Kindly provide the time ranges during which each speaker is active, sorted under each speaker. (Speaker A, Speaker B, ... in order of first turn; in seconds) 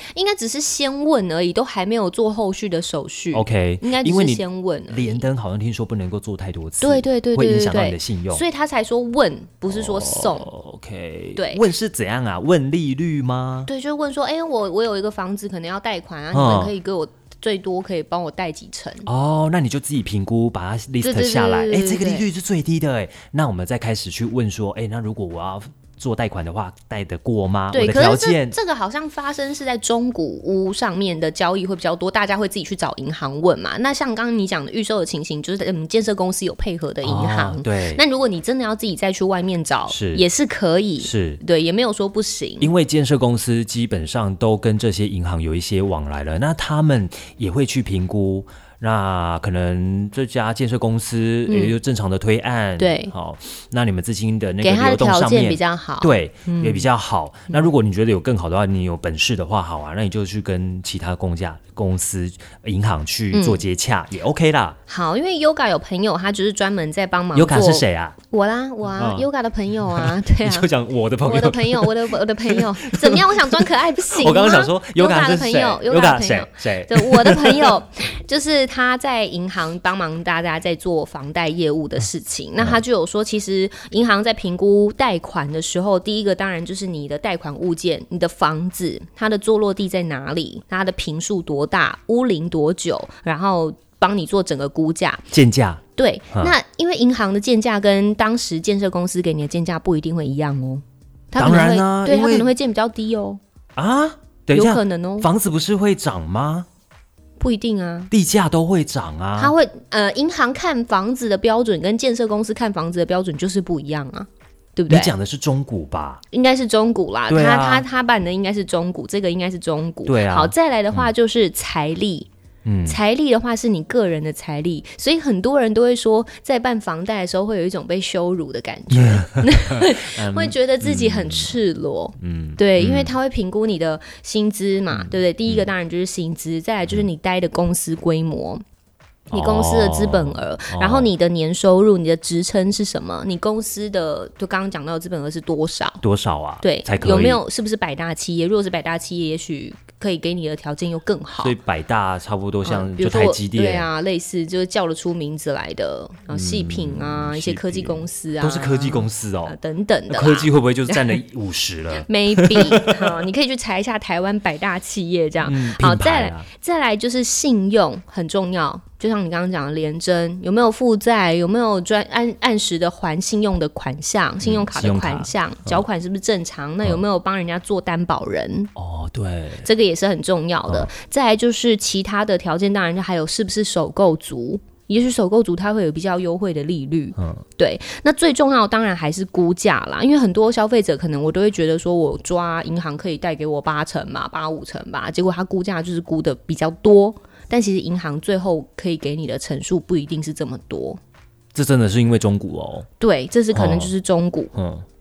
Speaker A: 0.1-5.2, 6.8-10.5, 11.3-11.6, 13.7-19.1, 21.0-22.2, 27.7-42.7, 51.5-51.8, 52.8-53.1, 54.6-56.9, 63.3-63.6, 64.9-70.7, 71.2-95.2, 96.0-103.4, 104.5-105.3, 107.4-108.1, 109.4-115.1, 116.3-122.3, 122.8-138.6, 139.3-146.0, 146.6-151.5, 152.6-161.2, 162.0-178.7, 179.6-201.0, 203.0-204.5
Speaker B: 3.3-8.4, 9.7-13.7, 16.3-16.7, 19.1-28.6, 37.0-38.0, 39.9-40.2, 41.0-41.4, 42.6-64.8, 67.3-68.2, 69.0-69.3, 69.8-77.8, 95.3-95.8, 101.4-102.5, 103.8-106.7, 108.1-109.5, 114.9-116.2, 117.3-117.8, 120.0-121.1, 122.6-123.0, 128.9-131.5, 132.2-133.2, 134.9-135.7, 139.3-141.1, 146.0-147.4, 151.4-153.9, 156.3-159.6, 160.1-162.9, 165.4-166.5, 174.4-175.8, 178.8-179.7, 180.7-180.9, 187.2-187.4, 201.5-202.9, 203.5-203.9, 204.5-204.8